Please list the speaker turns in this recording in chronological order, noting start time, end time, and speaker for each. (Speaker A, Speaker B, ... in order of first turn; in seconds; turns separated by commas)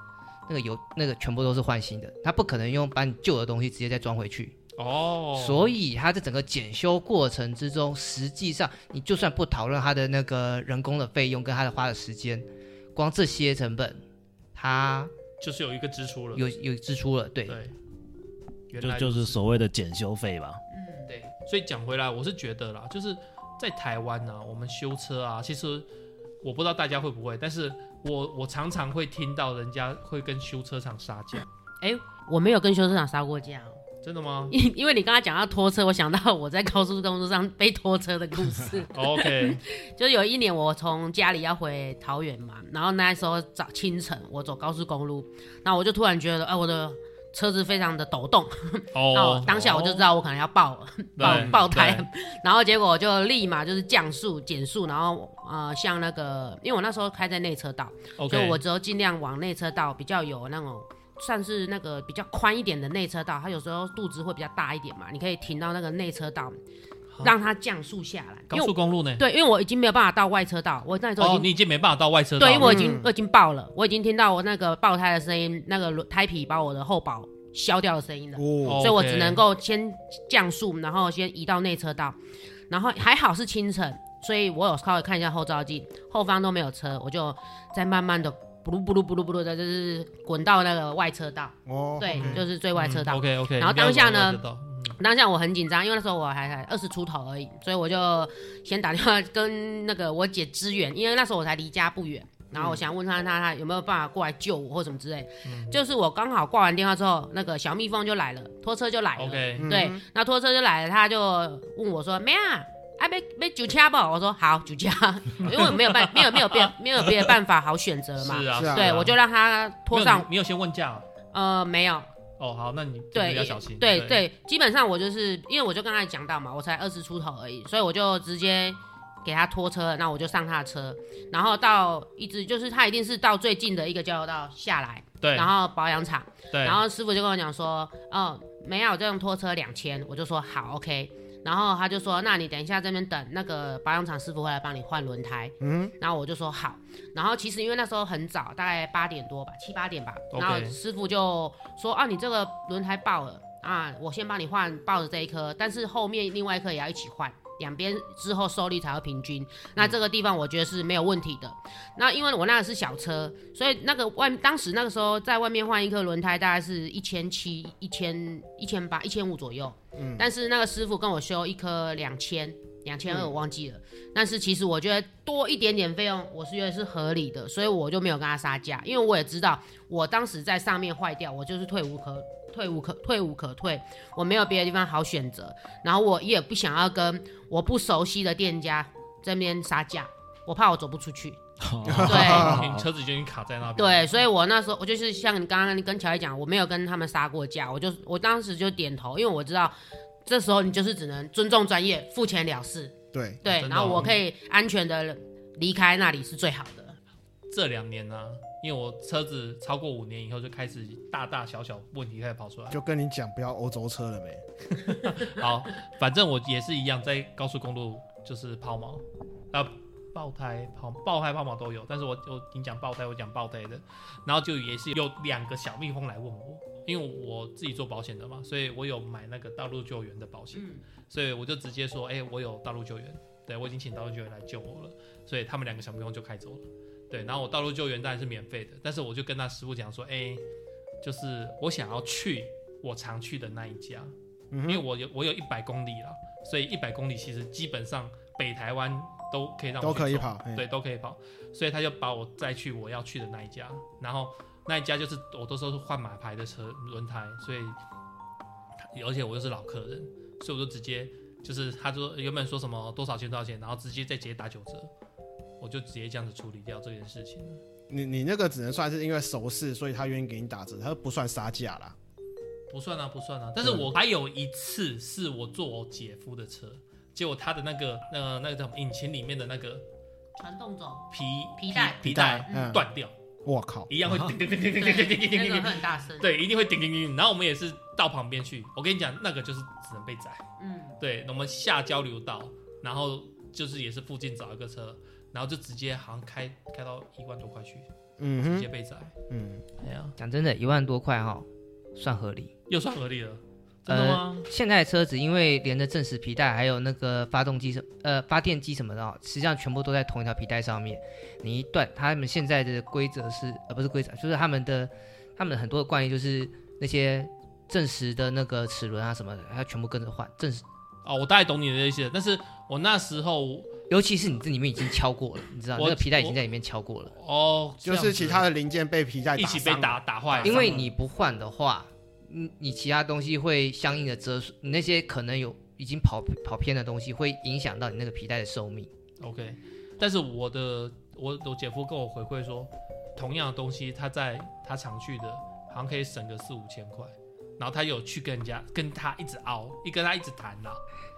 Speaker A: 0.5-4.5, Speaker B: 4.8-5.7, Speaker A: 5.3-14.0, Speaker A: 14.6-15.1, Speaker B: 15.4-16.4, Speaker A: 16.4-17.6, Speaker B: 17.5-17.8, Speaker B: 18.7-19.4, Speaker C: 18.8-20.6, Speaker D: 20.7-21.1, Speaker B: 21.1-25.9, Speaker B: 26.4-31.5, Speaker D: 31.8-33.8, Speaker B: 34.0-34.5, Speaker D: 34.5-66.6, Speaker B: 38.9-39.6, Speaker B: 48.9-50.1, Speaker B: 51.2-52.1, Speaker E: 51.2-51.5, Speaker B: 58.2-58.6, Speaker D: 67.2-71.5, Speaker B: 68.5-69.2, Speaker B: 71.2-73.0, Speaker D: 72.4-82.2, Speaker E: 72.5-73.1, Speaker E: 78.4-78.9, Speaker B: 78.6-79.4, Speaker D: 82.7-94.4, Speaker E: 91.7-92.4, Speaker B: 92.1-95.0, Speaker D: 95.0-120.3, Speaker E: 102.5-102.9, Speaker B: 105.5-105.8, Speaker B: 109.2-109.8, Speaker E: 109.6-110.0, Speaker B: 115.4-117.3, Speaker B: 118.2-119.2, Speaker E: 118.5-119.0, Speaker B: 119.9-121.1, Speaker D: 121.3-122.1, Speaker B: 122.4-124.2, Speaker D: 123.1-191.4, Speaker B: 135.2-135.5, Speaker B: 136.5-136.8, Speaker E: 145.6-145.9, Speaker B: 150.3-150.8, Speaker E: 170.0-170.3, Speaker E: 173.1-173.3, Speaker C: 191.6-192.9, Speaker E: 191.9-192.7, Speaker B: 192.0-194.3, Speaker D: 192.0-192.6, Speaker D: 193.8-199.8, Speaker D: 200.3-207.0, Speaker E: 203.1-204.2, Speaker B: 203.4-204.2, Speaker B: 207.5-212.8, Speaker E: 212.7-214.4, Speaker B: 214.8-240.4, Speaker D: 230.5-230.8, Speaker B: 241.0-244.1, Speaker E: 244.5-244.8, Speaker B: 244.7-257.8, Speaker E: 249.8-250.7, Speaker B: 258.9-264.9, Speaker B: 265.6-267.6, Speaker E: 267.9-271.9, Speaker B: 272.7-279.8, Speaker E: 273.6-273.9, Speaker D: 280.4-281.1, Speaker B: 281.1-283.1, Speaker D: 281.6-282.8, Speaker E: 282.1-282.9, Speaker E: 283.4-283.9, Speaker B: 283.9-290.4, Speaker D: 284.7-286.3, Speaker D: 290.6-291.0, Speaker B: 291.0-297.9, Speaker E: 298.2-298.7, Speaker B: 298.4-299.1, Speaker E: 299.3-299.6, Speaker B: 299.8-300.2, Speaker A: 300.2-302.5, Speaker B: 302.7-304.5, Speaker A: 303.9-320.6, Speaker B: 321.0-323.7, Speaker A: 323.9-327.1, Speaker B: 325.8-326.4, Speaker B: 327.1-328.5, Speaker E: 327.8-330.9, Speaker B: 329.4-330.9, Speaker A: 330.4-338.9, Speaker B: 339.2-350.8